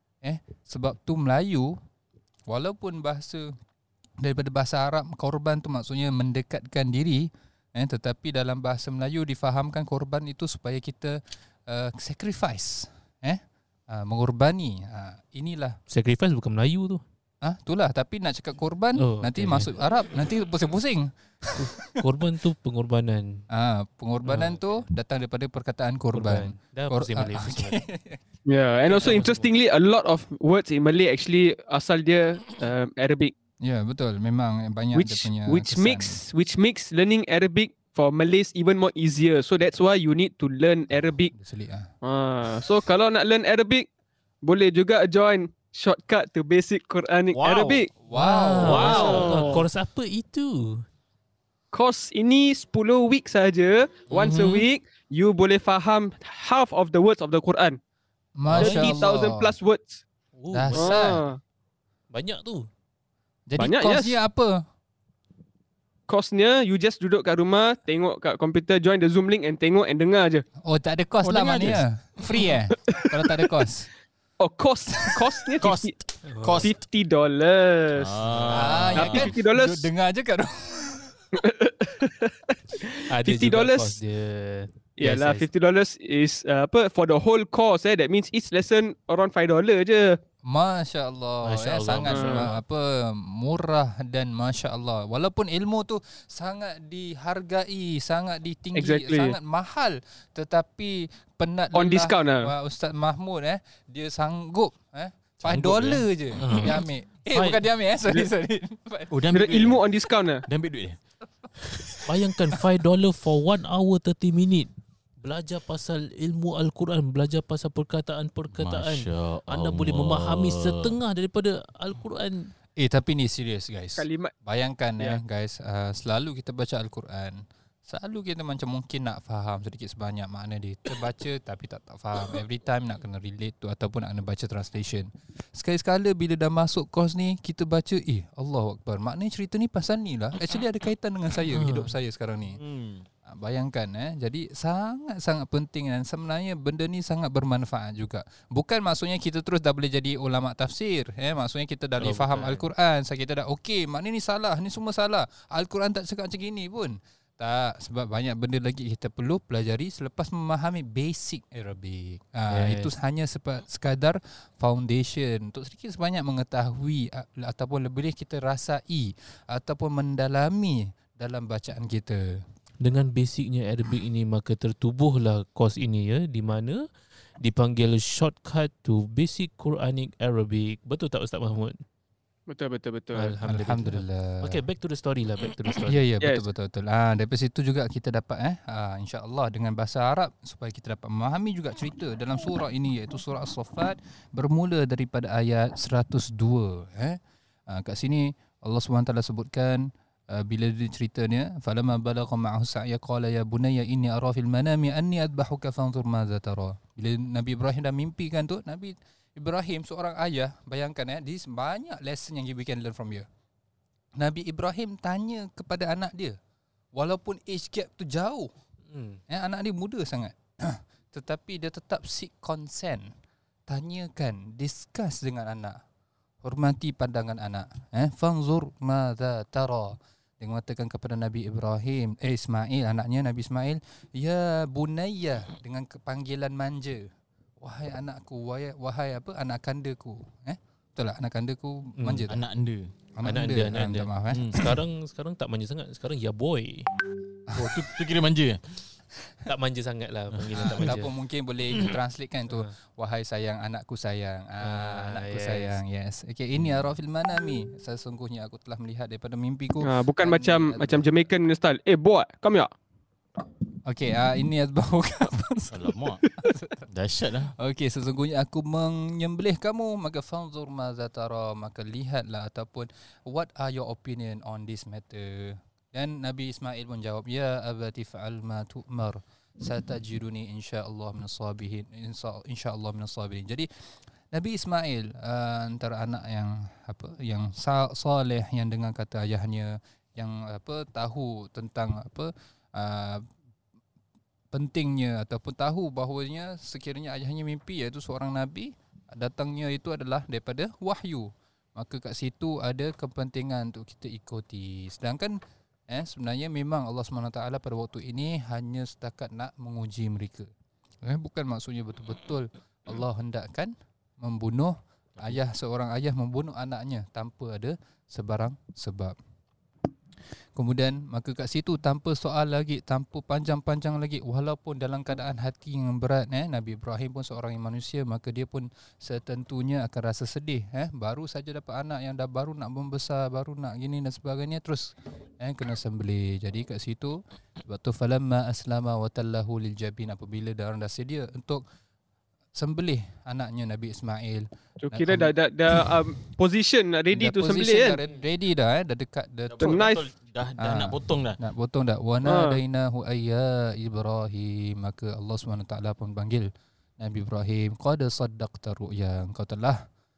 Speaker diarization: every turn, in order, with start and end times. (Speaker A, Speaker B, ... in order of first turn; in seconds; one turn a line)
Speaker A: 0.2-1.8
Speaker A: 2.5-3.5
Speaker A: 4.2-15.8
Speaker B: 15.9-17.0
Speaker A: 17.4-21.9
Speaker B: 18.9-19.7
Speaker B: 21.6-23.4
Speaker A: 23.5-28.2
Speaker B: 24.2-24.6
Speaker B: 26.1-27.8
Speaker C: 28.5-33.3
Speaker B: 28.9-29.5
Speaker A: 33.6-36.2
Speaker C: 34.9-41.3
Speaker A: 41.3-41.9
Speaker C: 42.0-43.9
Speaker C: 44.4-47.9
Speaker D: 47.3-47.8
Speaker A: 48.0-49.3
Speaker B: 48.1-50.8
Speaker D: 48.6-49.6
Speaker C: 48.6-49.6
Speaker C: 51.7-57.8
Speaker D: 54.1-54.7
Speaker A: 58.4-59.5
Speaker B: 58.5-59.0
Speaker C: 58.5-60.0
Speaker B: 60.4-61.0
Speaker A: 60.5-61.2
Speaker C: 60.7-61.4
Speaker B: 62.1-62.7
Speaker A: 63.5-64.6
Speaker C: 63.6-64.2
Speaker C: 66.1-70.4
Speaker A: 70.6-73.9
Speaker D: 71.2-71.8
Speaker C: 72.9-73.5
Speaker C: 74.4-75.9
Speaker D: 75.6-76.7
Speaker B: 76.2-76.7
Speaker C: 76.6-78.1
Speaker D: 77.9-79.3
Speaker B: 78.2-78.9
Speaker A: 78.5-81.1
Speaker C: 78.9-79.9
Speaker C: 81.3-84.0
Speaker B: 83.1-85.5
Speaker C: 85.0-90.2
Speaker A: 90.4-109.2
Speaker B: 91.4-92.6
Speaker C: 92.1-92.5
Speaker C: 98.7-99.4
Speaker C: 101.7-102.5
Speaker D: 105.4-106.6
Speaker B: 106.4-107.6
Speaker D: 109.1-109.8
Speaker C: 109.3-110.4
Speaker D: 110.5-111.0
Speaker D: 111.6-111.9
Speaker B: 112.0-114.7
Speaker B: 115.2-122.5
Speaker D: 118.5-121.0
Speaker A: 122.8-142.6
Speaker C: 124.0-124.3
Speaker B: 141.5-141.9
Speaker D: 142.5-143.0
Speaker A: 143.3-172.4
Speaker B: 152.0-152.7
Speaker B: 162.5-162.9
Speaker B: 172.8-176.8
Speaker B: 177.4-181.8
Speaker C: 182.5-183.3
Speaker B: 183.1-186.0
Speaker A: 183.4-184.6
Speaker A: 185.9-213.3
Speaker C: 186.2-186.4
Speaker A: 214.2-216.4
Speaker A: 216.9-218.5
Speaker B: 218.9-219.2
Speaker A: 219.3-223.1
Speaker A: 223.7-225.8
Speaker A: 226.4-237.1
Speaker A: 237.6-242.4
Speaker B: 242.0-242.2
Speaker D: 242.3-242.9
Speaker A: 243.2-244.7
Speaker B: 243.2-246.9
Speaker D: 244.3-244.7
Speaker A: 247.5-247.9
Speaker D: 247.5-248.6
Speaker B: 249.4-251.1
Speaker D: 250.3-250.9
Speaker A: 250.6-261.1
Speaker B: 254.6-255.8
Speaker D: 256.6-256.9
Speaker C: 259.8-262.7
Speaker A: 263.8-266.9
Speaker D: 265.7-266.2
Speaker D: 266.9-267.5
Speaker A: 267.6-283.7
Speaker A: 284.3-293.2
Speaker A: 294.5-305.4
Speaker A: 305.9-310.5
Speaker A: 311.0-319.1
Speaker A: 320.6-341.6
Speaker A: 342.5-345.9
Speaker C: 344.8-348.0
Speaker A: 347.1-349.9
Speaker D: 349.5-351.4
Speaker C: 349.6-350.0
Speaker A: 350.6-359.8
Speaker C: 352.2-352.6